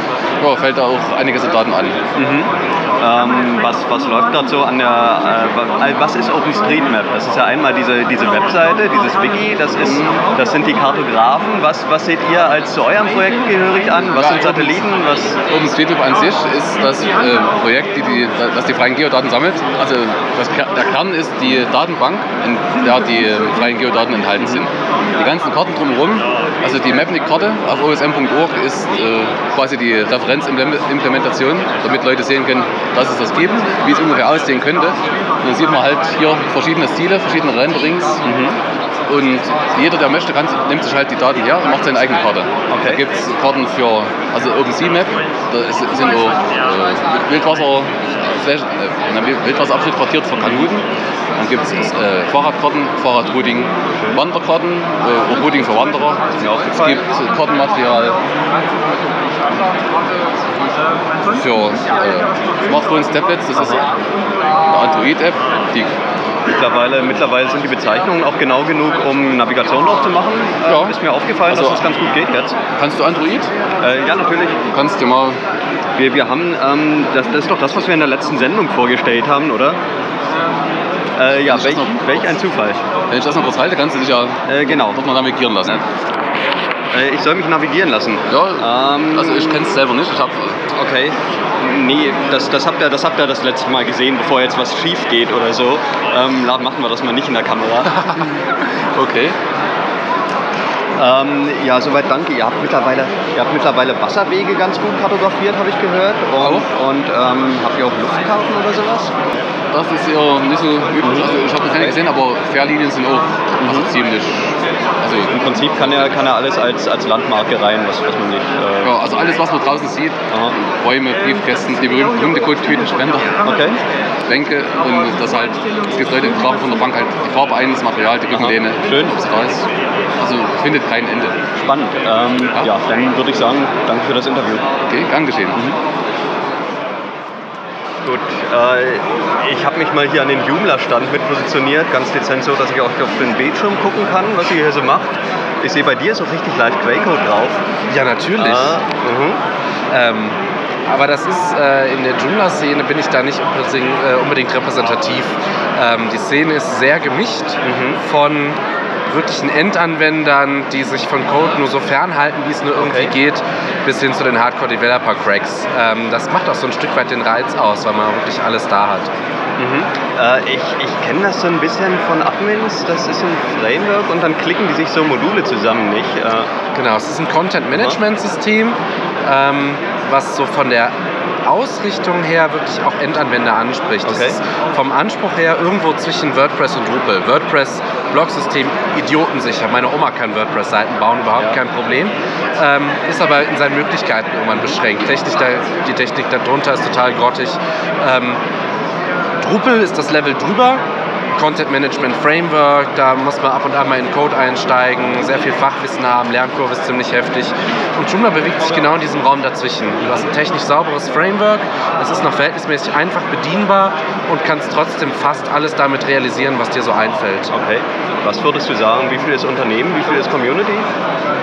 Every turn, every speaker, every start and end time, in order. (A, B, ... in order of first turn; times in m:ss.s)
0:00.4-0:02.0 A
0:02.2-0:15.4 B
0:14.2-0:38.2 A
0:38.2-0:38.6 B
0:39.1-0:58.2 A
0:42.7-0:43.0 B
0:54.0-0:54.2 B
0:56.4-0:57.0 B
1:01.3-1:03.9 A
1:04.6-1:05.9 A
1:06.4-1:12.6 B
1:10.6-1:11.0 A
1:11.5-1:11.8 A
1:12.7-1:13.5 A
1:13.8-1:14.6 B
1:14.7-1:15.4 A
1:16.0-1:19.8 B
1:21.2-1:22.8 B
1:21.4-1:22.3 A
1:23.1-1:25.8 A
1:24.5-1:25.0 B
1:26.9-1:29.7 B
1:28.3-1:30.6 A
1:30.7-1:38.0 B
1:38.0-1:39.4 A
1:41.0-1:49.1 B
1:49.7-1:55.4 A
1:51.0-1:52.0 B
1:53.6-1:53.9 B
1:55.3-1:59.0 B
1:58.8-2:03.4 A
2:03.4-2:03.8 B
2:04.2-2:09.6 A
2:08.3-2:09.2 B
2:10.2-2:11.4 A
2:11.6-2:14.6 B
2:14.9-2:15.6 A
2:18.0-2:27.6 B
2:27.9-2:28.8 C
2:28.4-2:29.4 B
2:29.9-2:49.1 C
2:37.6-2:38.0 B
2:42.8-2:43.1 B
2:49.6-2:56.5 B
2:56.7-3:18.4 C
3:04.0-3:04.4 B
3:19.4-3:20.8 C
3:21.3-3:37.5 C
3:37.5-3:40.9 B